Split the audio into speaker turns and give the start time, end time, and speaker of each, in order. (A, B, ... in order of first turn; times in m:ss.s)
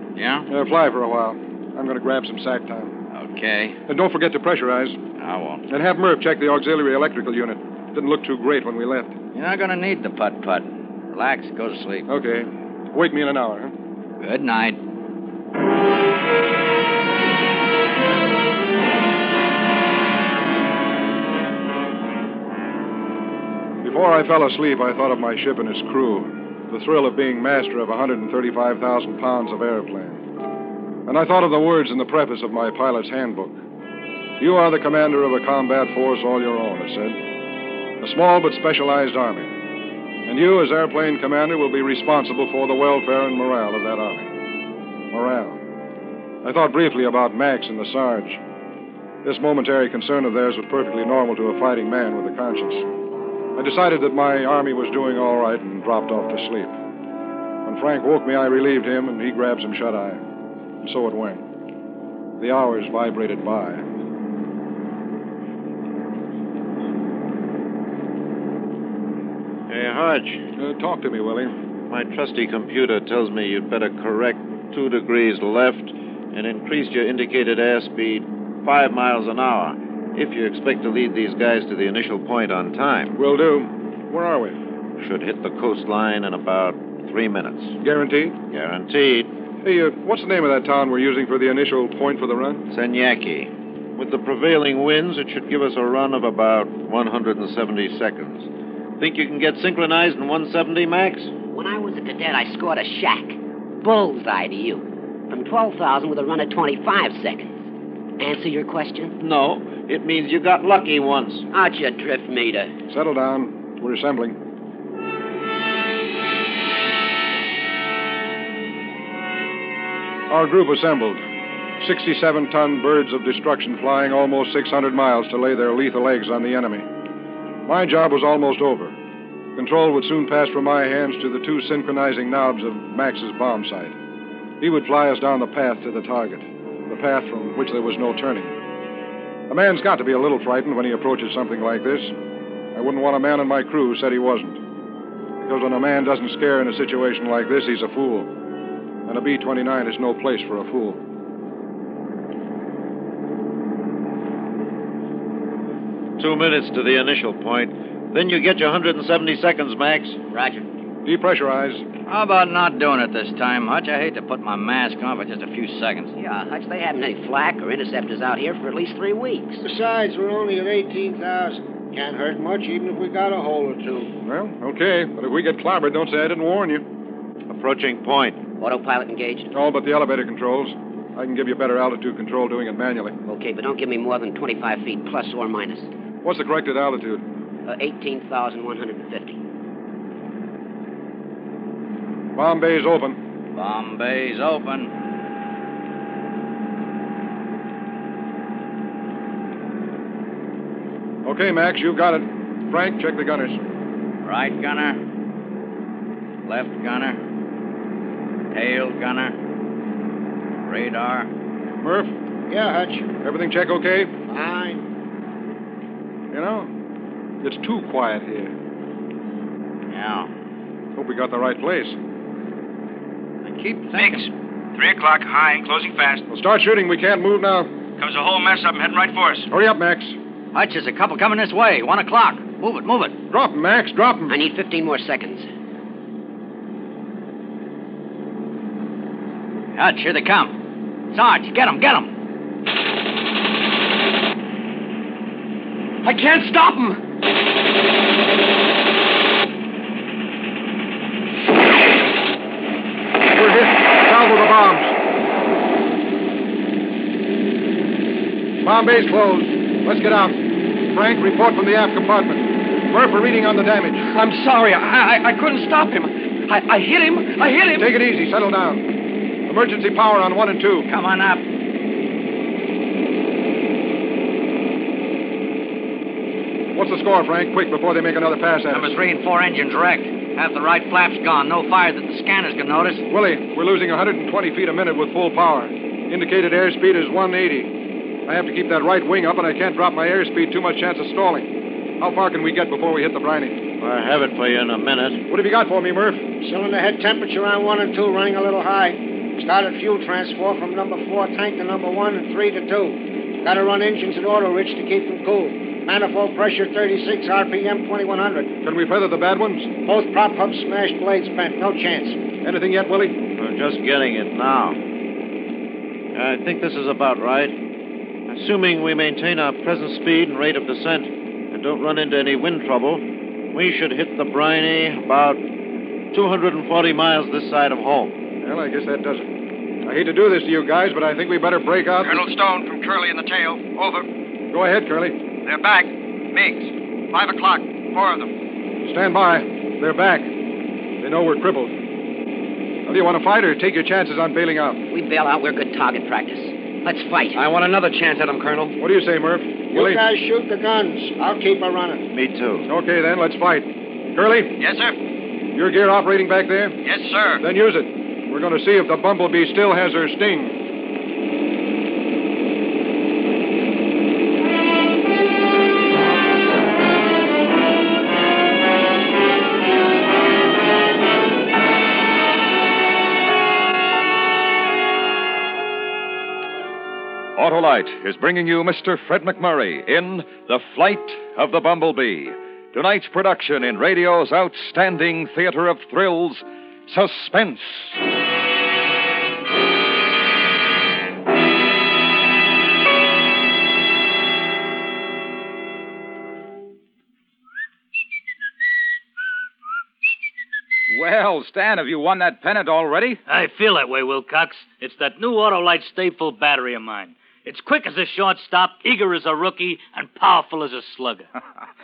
0:00.2-0:00.5 A
0:00.5-0:02.9 B
0:03.1-0:03.8 A
0:03.9-0:05.0 B
0:05.2-0:05.6 A
0:05.7-0:09.1 B
0:09.3-0:12.1 A
0:12.1-0:13.7 B
0:14.2-0:14.8 A
0:23.8-0:30.2 B
0:31.1-0:33.6 B
0:34.4-0:37.2 B
0:38.0-0:39.5 B
0:40.3-0:44.3 B
0:45.1-0:45.6 B
0:46.4-0:48.4 B
0:49.2-0:52.8 B
0:53.6-0:56.7 B
0:57.6-1:00.2 B
1:00.8-1:01.4 B
1:02.4-1:03.8 B
1:09.7-1:10.4 C
1:10.6-1:11.6 B
1:11.9-1:23.2 C
1:23.2-1:24.6 B
1:25.0-1:27.8 C
1:27.8-1:28.4 B
1:28.5-1:29.3 C
1:29.6-1:32.6 B
1:32.7-1:38.5 C
1:39.0-1:41.3 C
1:41.5-1:47.6 D
1:48.2-1:49.2 D
1:49.2-1:51.5 C
1:51.5-1:52.7 D
1:52.9-1:54.4 B
2:00.3-2:01.2 B
2:01.8-2:06.9 B
2:07.7-2:09.0 B
2:09.6-2:14.0 B
2:14.6-2:18.6 B
2:19.5-2:22.1 B
2:22.7-2:24.6 B
2:25.4-2:28.3 B
2:29.1-2:31.0 B
2:36.2-2:40.2 C
2:41.0-2:41.8 B
2:42.1-2:46.1 A
2:46.2-2:49.6 D
2:49.6-2:54.1 E
2:54.2-2:56.8 B
2:57.5-2:58.4 C
2:58.6-2:59.5 D
2:59.5-3:03.2 B
3:03.3-3:05.9 D
3:06.2-3:07.2 B
3:07.7-3:09.4 D
3:12.4-3:13.2 B
3:13.6-3:14.9 A
3:21.2-3:23.6 B
3:24.2-3:25.0 A
3:26.5-3:27.2 A
3:28.5-3:29.4 A
3:30.6-3:31.3 A
3:31.8-3:32.1 B
3:32.5-3:33.1 E
3:33.2-3:34.1 B
3:34.3-3:34.9 E
3:36.3-3:36.7 B
3:37.4-3:38.5 B
3:39.9-3:40.3 A
3:41.0-3:42.0 B
3:43.5-3:44.2 A
3:43.9-3:46.3 F
3:46.3-3:47.7 B
3:48.0-3:49.5 F
3:49.5-3:50.2 B
3:50.5-3:53.1 A
3:53.3-3:54.4 B
3:54.3-3:55.5 D
3:59.8-4:00.6 A
4:01.1-4:02.1 A
4:06.0-4:07.0 G
4:13.3-4:15.0 B
4:18.6-4:24.1 B
4:24.1-4:27.9 G
4:27.8-4:28.9 B
4:29.5-4:30.9 B
4:30.9-4:31.4 A
4:36.7-4:39.0 B
4:38.7-4:43.0 A
4:43.1-4:47.7 B
4:48.3-4:51.5 B
4:52.0-4:53.6 B
4:53.8-4:55.2 C
4:55.3-4:56.3 B
4:56.4-5:08.5 E
5:08.6-5:09.7 B
5:09.8-5:12.2 E
5:12.4-5:13.2 B
5:13.4-5:14.8 C
5:16.2-5:17.6 C
5:18.3-5:25.4 C
5:26.1-5:28.2 C
5:28.4-5:29.3 B
5:29.8-5:32.2 B
5:32.0-5:34.1 H
5:34.5-5:35.2 B
5:35.4-5:38.3 H
5:38.8-5:40.3 B
5:41.0-5:41.8 B
5:42.9-5:44.8 B
5:44.9-5:47.4 D
5:47.3-5:48.8 G
5:48.8-5:50.0 B
5:49.7-5:52.0 E
5:52.1-5:52.7 C
5:52.7-5:54.6 B
5:54.6-5:54.9 F
5:55.6-5:56.8 B
5:56.8-5:57.4 F
5:57.4-6:00.6 B
6:17.4-6:28.0 I
6:40.9-6:43.2 J
6:43.3-6:51.3 K